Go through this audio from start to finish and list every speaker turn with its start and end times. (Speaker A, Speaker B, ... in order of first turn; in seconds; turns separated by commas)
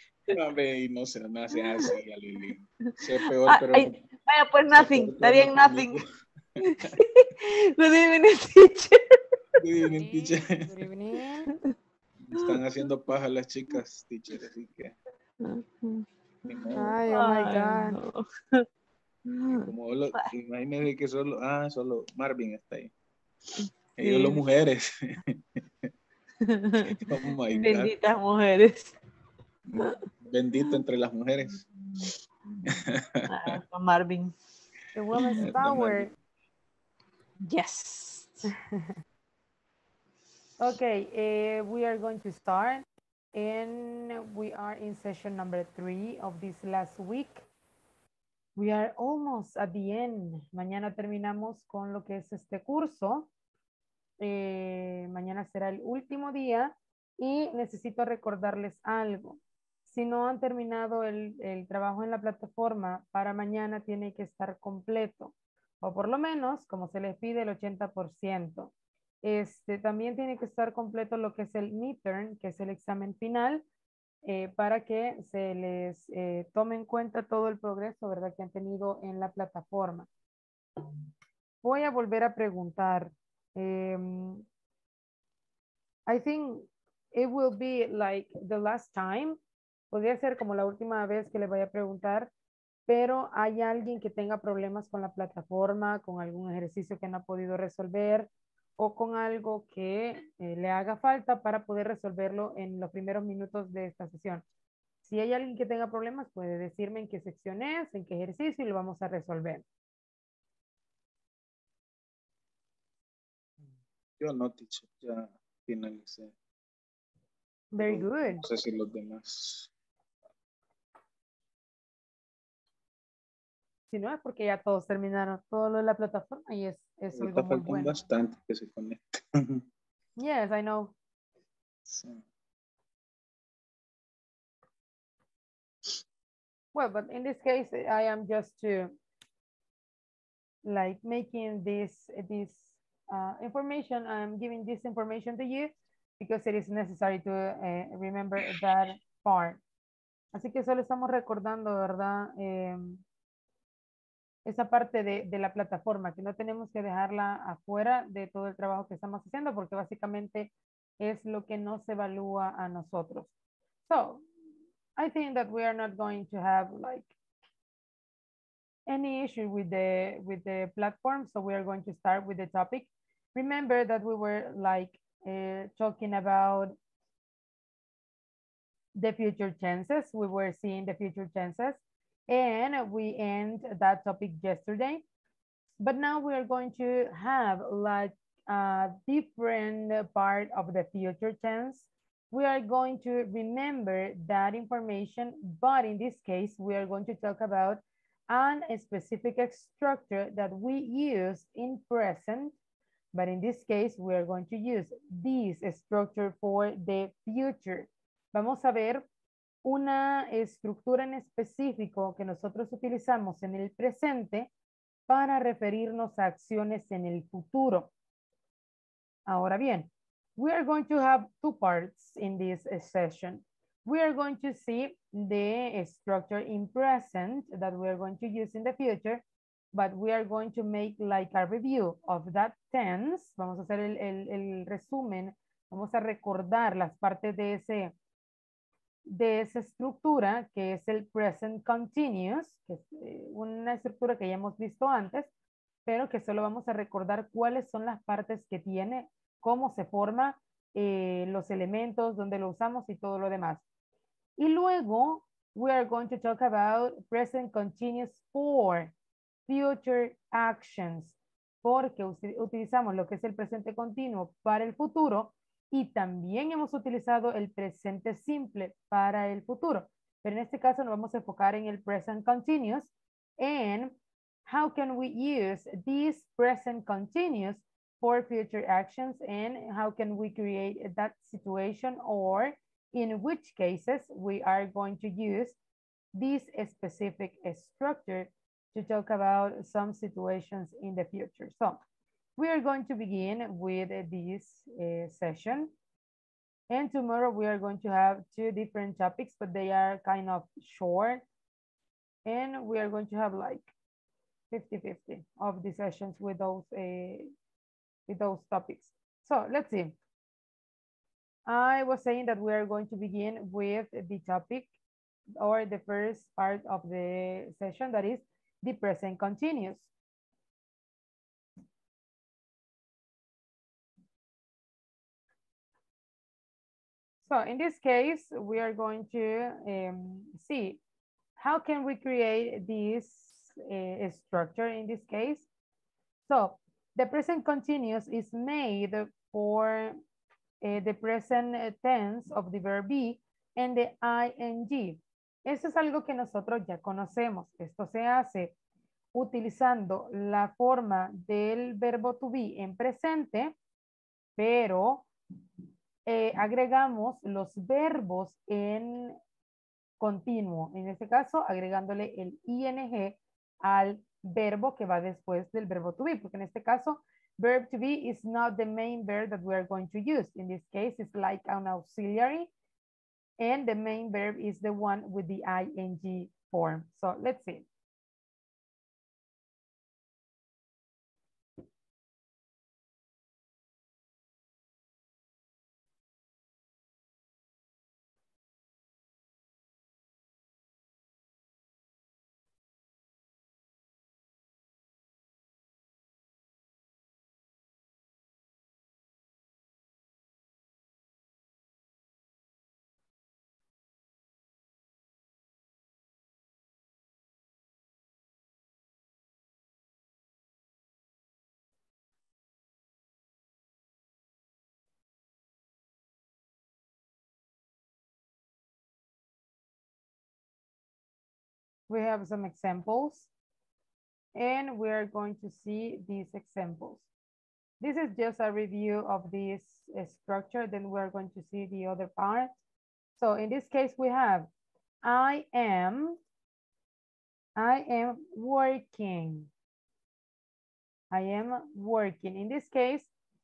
Speaker A: 0.3-4.0, Speaker B: 1.5-1.9, Speaker B: 2.9-6.0, Speaker A: 4.7-6.1, Speaker B: 6.6-9.2, Speaker A: 9.6-10.7, Speaker C: 9.9-11.5, Speaker A: 12.3-14.9, Speaker B: 15.4-16.1, Speaker A: 16.5-17.0, Speaker B: 16.6-18.6, Speaker C: 16.8-18.0, Speaker B: 19.3-20.3, Speaker A: 19.6-22.9, Speaker A: 24.0-25.6, Speaker B: 24.0-24.4, Speaker B: 26.4-29.0, Speaker A: 27.0-27.9, Speaker A: 29.7-31.6, Speaker B: 31.9-32.7, Speaker A: 32.7-33.5, Speaker B: 33.3-34.3, Speaker C: 34.9-36.1, Speaker B: 35.2-35.4, Speaker A: 35.4-36.1, Speaker B: 37.5-38.5, Speaker C: 40.6-47.5, Speaker C: 48.6-53.3, Speaker C: 54.2-68.7, Speaker C: 69.2-73.7, Speaker C: 74.2-80.1, Speaker C: 81.6-84.4, Speaker C: 86.1-89.4, Speaker C: 89.9-92.3, Speaker C: 92.9-104.5, Speaker C: 105.0-109.7, Speaker A: 114.2-116.3, Speaker C: 117.7-118.4, Speaker A: 117.8-119.7, Speaker C: 123.9-128.0, Speaker A: 127.2-129.6, Speaker C: 130.2-130.9, Speaker A: 131.9-132.2, Speaker C: 136.7-138.9, Speaker C: 140.7-149.6, Speaker C: 150.3-153.0, Speaker C: 154.4-163.3, Speaker C: 163.9-164.2, Speaker C: 165.0-167.1, Speaker C: 168.9-176.8, Speaker C: 179.0-185.0, Speaker C: 185.8-202.6, Speaker C: 203.1-209.1, Speaker C: 209.6-214.5, Speaker C: 215.1-217.9, Speaker C: 219.3-237.9, Speaker C: 239.1-245.3, Speaker C: 245.9-253.6, Speaker C: 254.4-258.9, Speaker C: 259.5-273.9, Speaker C: 274.5-285.6, Speaker C: 286.1-291.8, Speaker C: 292.4-295.7, Speaker C: 296.7-301.2, Speaker C: 302.3-303.7, Speaker C: 304.5-307.3, Speaker C: 308.1-309.9, Speaker C: 311.5-314.7, Speaker C: 315.4-319.9, Speaker C: 327.2-330.8, Speaker C: 331.4-335.5, Speaker C: 336.3-340.0, Speaker C: 340.6-348.6, Speaker C: 349.1-353.6, Speaker C: 354.4-355.1, Speaker C: 356.1-359.2, Speaker C: 360.0-372.5, Speaker C: 373.4-377.7, Speaker C: 421.9-423.3, Speaker C: 424.4-427.1, Speaker C: 427.8-432.6, Speaker C: 433.2-434.5, Speaker C: 435.0-436.2, Speaker C: 437.6-439.5, Speaker C: 441.1-443.1